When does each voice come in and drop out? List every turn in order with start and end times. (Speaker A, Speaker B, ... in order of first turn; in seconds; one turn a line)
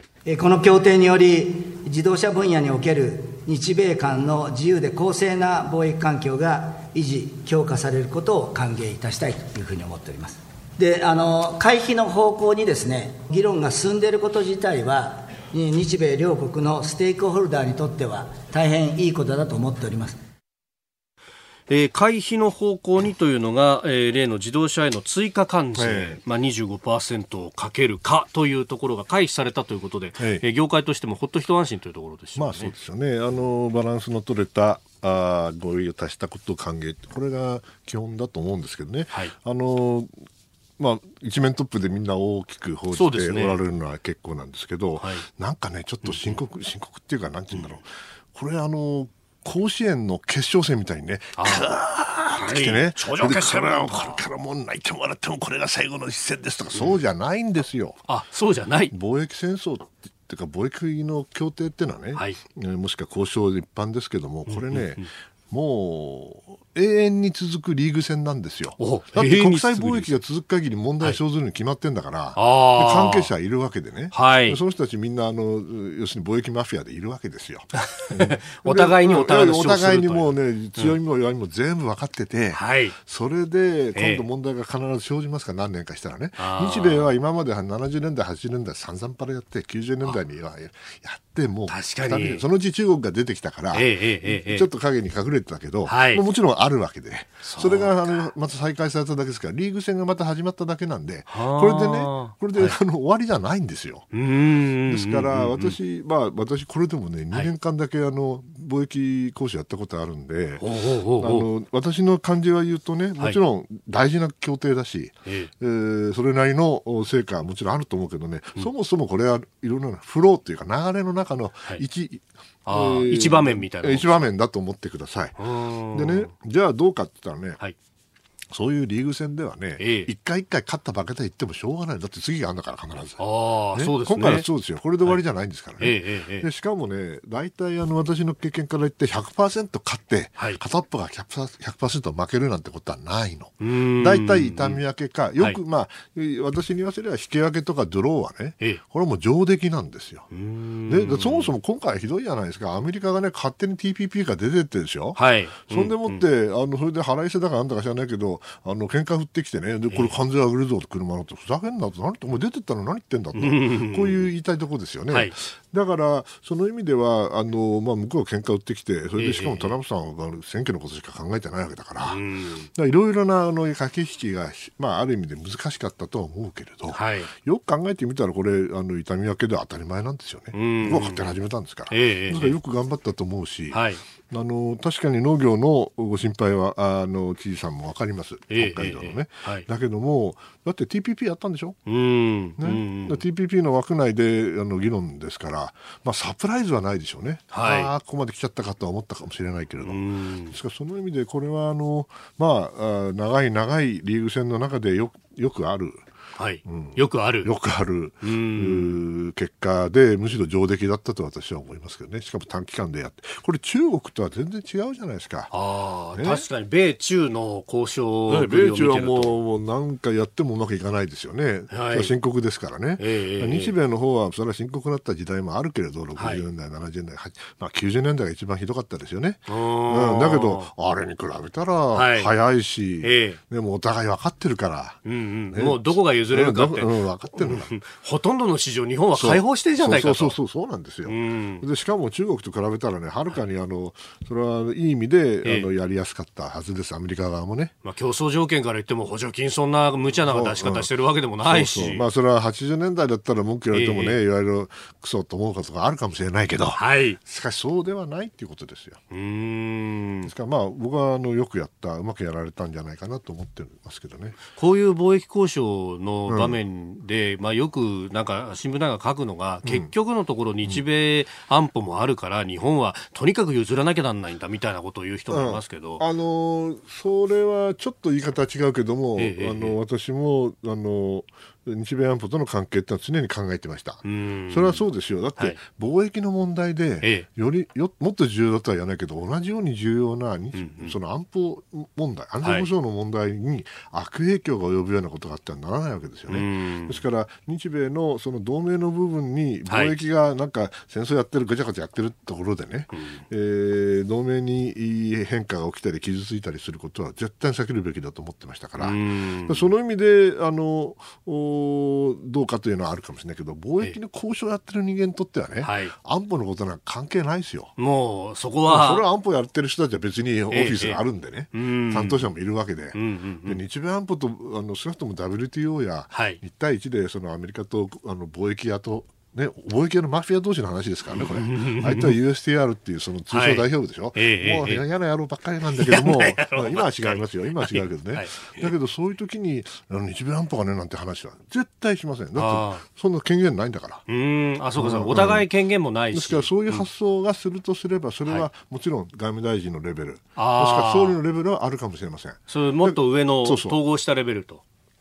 Speaker A: 0.3-20.2
Speaker B: 21.7-32.7
Speaker C: 25.8-26.2
Speaker C: 30.2-30.4
Speaker C: 32.4-40.1
Speaker C: 40.8-58.0
Speaker B: 42.9-43.6
Speaker B: 45.0-45.3
Speaker B: 46.0-46.4
Speaker B: 51.4-51.7
Speaker B: 52.4-54.1
Speaker B: 56.7-57.0
Speaker B: 58.1-58.9
Speaker C: 58.9-104.1
Speaker B: 62.1-62.4
Speaker B: 64.5-65.1
Speaker B: 68.8-70.1
Speaker B: 72.3-73.3
Speaker B: 74.1-74.6
Speaker B: 77.8-80.9
Speaker B: 82.5-83.0
Speaker B: 83.9-84.2
Speaker B: 86.4-87.1
Speaker B: 91.7-92.4
Speaker B: 93.7-94.7
Speaker B: 95.8-96.2
Speaker B: 97.4-98.2
Speaker B: 101.3-102.8
Speaker B: 104.1-105.7
Speaker C: 104.8-110.7
Speaker B: 110.6-111.5
Speaker C: 111.2-125.4
Speaker B: 115.2-115.5
Speaker B: 122.7-124.3
Speaker B: 125.4-126.3
Speaker C: 125.9-127.6
Speaker C: 128.5-133.2
Speaker B: 129.8-130.1
Speaker B: 133.2-134.4
Speaker C: 133.7-150.3
Speaker B: 135.8-136.5
Speaker B: 143.6-144.8
Speaker B: 150.3-151.5
Speaker C: 150.9-172.2
Speaker B: 155.1-156.2
Speaker B: 163.3-164.2
Speaker B: 169.2-169.7
Speaker B: 172.0-172.7
Speaker C: 172.7-191.8
Speaker B: 176.9-177.3
Speaker B: 180.5-181.3
Speaker B: 181.9-182.6
Speaker B: 183.7-184.0
Speaker B: 188.5-189.7
Speaker B: 191.8-193.2
Speaker C: 192.6-206.0
Speaker B: 197.5-197.9
Speaker B: 199.8-200.5
Speaker B: 206.4-207.5
Speaker C: 206.7-215.5
Speaker B: 208.2-209.0
Speaker B: 215.5-219.4
Speaker C: 216.2-216.4
Speaker C: 218.3-235.0
Speaker B: 221.7-222.1
Speaker B: 223.0-223.7
Speaker B: 226.2-226.4
Speaker B: 229.5-230.7
Speaker B: 231.9-232.3
Speaker B: 233.0-233.4
Speaker B: 235.0-240.3
Speaker C: 235.5-237.7
Speaker C: 239.1-247.7
Speaker B: 241.1-241.6
Speaker B: 245.4-245.7
Speaker B: 247.8-252.1
Speaker C: 250.2-259.0
Speaker B: 253.7-254.2
Speaker B: 256.8-257.2
Speaker B: 259.1-260.3
Speaker C: 260.2-264.4
Speaker B: 264.6-276.0
Speaker C: 266.3-266.6
Speaker C: 269.6-269.9
Speaker C: 275.3-317.7
Speaker B: 279.2-279.8
Speaker B: 284.0-284.9
Speaker B: 287.0-287.3
Speaker B: 290.5-290.9
Speaker B: 292.4-292.7
Speaker B: 296.3-297.0
Speaker B: 299.7-299.9
Speaker B: 302.9-303.2
Speaker B: 308.8-309.7
Speaker B: 315.6-315.9
Speaker B: 317.8-319.1
Speaker C: 318.6-344.0
Speaker B: 320.5-321.0
Speaker B: 321.5-322.3
Speaker B: 322.9-323.6
Speaker B: 326.1-326.4
Speaker B: 331.1-332.1
Speaker B: 333.3-334.8
Speaker B: 335.7-338.7
Speaker B: 342.3-342.8
Speaker B: 344.1-346.9
Speaker C: 344.8-345.5
Speaker C: 346.1-353.8
Speaker B: 350.4-351.2
Speaker B: 352.5-354.6